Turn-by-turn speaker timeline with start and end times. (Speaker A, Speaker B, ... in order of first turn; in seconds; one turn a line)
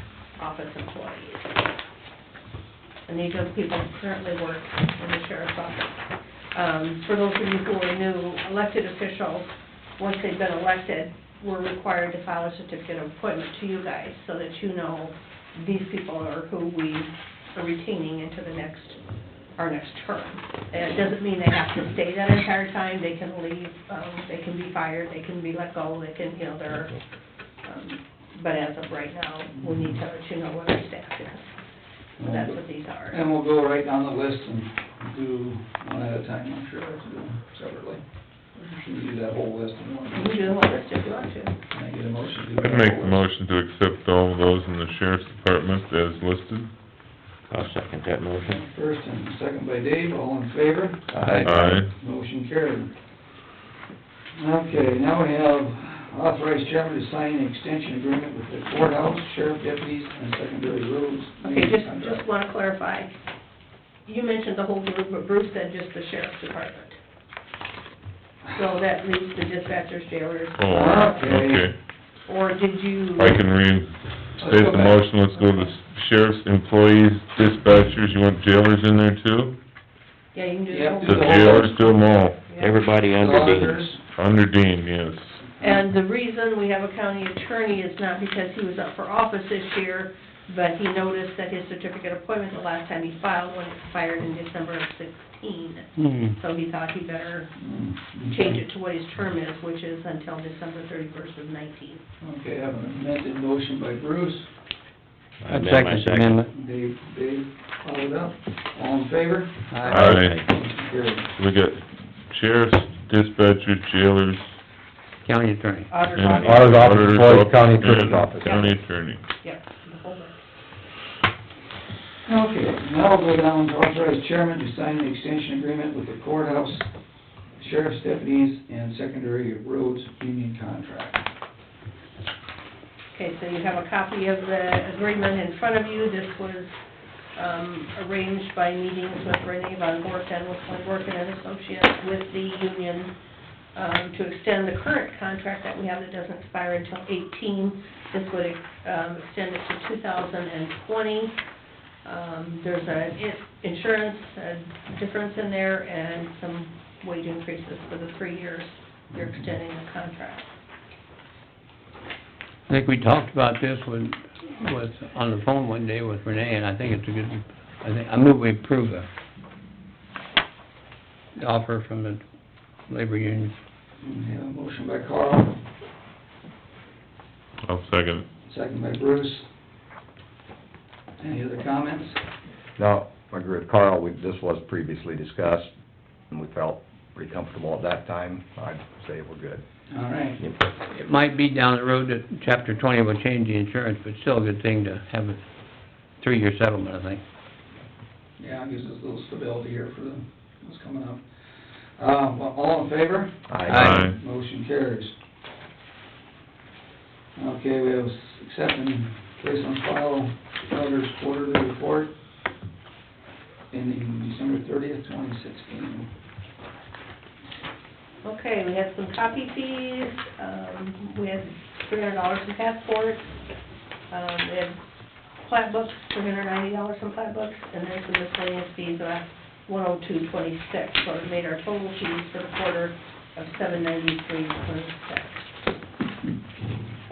Speaker A: 0.4-1.6
Speaker A: 3.1-6.0
Speaker A: 6.5-19.0
Speaker A: 19.6-27.0
Speaker A: 27.6-31.6
Speaker B: 29.6-29.9
Speaker B: 32.2-38.0
Speaker A: 32.2-33.2
Speaker B: 38.7-40.4
Speaker A: 40.1-41.5
Speaker B: 41.7-43.2
Speaker C: 42.6-46.7
Speaker D: 47.5-48.6
Speaker B: 48.5-52.9
Speaker E: 51.2-51.5
Speaker C: 51.4-51.9
Speaker B: 54.4-62.2
Speaker A: 61.4-63.1
Speaker A: 64.1-67.0
Speaker A: 68.5-71.2
Speaker C: 70.6-71.8
Speaker B: 70.7-71.7
Speaker A: 72.3-73.4
Speaker C: 73.2-79.6
Speaker B: 74.4-75.1
Speaker A: 75.4-75.7
Speaker A: 80.3-81.9
Speaker B: 80.7-81.8
Speaker C: 81.0-82.4
Speaker A: 82.5-82.8
Speaker D: 82.6-83.9
Speaker B: 83.2-84.0
Speaker C: 84.2-85.4
Speaker A: 85.6-97.5
Speaker E: 96.0-96.4
Speaker B: 97.6-98.6
Speaker A: 98.3-102.0
Speaker B: 102.2-104.5
Speaker D: 105.4-106.5
Speaker E: 105.5-106.5
Speaker B: 106.5-111.3
Speaker E: 109.7-110.1
Speaker C: 109.8-110.4
Speaker D: 110.0-110.5
Speaker C: 111.4-114.5
Speaker E: 115.2-115.9
Speaker A: 115.9-116.8
Speaker C: 116.1-119.2
Speaker F: 116.3-118.7
Speaker A: 118.1-120.4
Speaker B: 122.3-126.9
Speaker B: 127.6-131.3
Speaker A: 133.1-136.7
Speaker A: 137.4-143.1
Speaker A: 143.8-151.3
Speaker A: 152.0-160.5
Speaker E: 162.7-169.1
Speaker E: 171.4-172.2
Speaker E: 172.9-173.6
Speaker B: 174.0-175.6
Speaker C: 177.7-178.3
Speaker B: 178.5-179.5
Speaker B: 181.2-182.2
Speaker F: 182.8-185.7
Speaker F: 186.3-189.6
Speaker B: 189.9-190.5
Speaker E: 190.9-195.4
Speaker E: 196.2-197.2
Speaker B: 198.4-205.2
Speaker F: 203.5-203.9
Speaker E: 203.7-204.1
Speaker C: 203.8-204.2
Speaker B: 207.4-212.1
Speaker B: 213.7-216.1
Speaker A: 218.2-223.3
Speaker A: 224.1-224.8
Speaker A: 225.4-235.5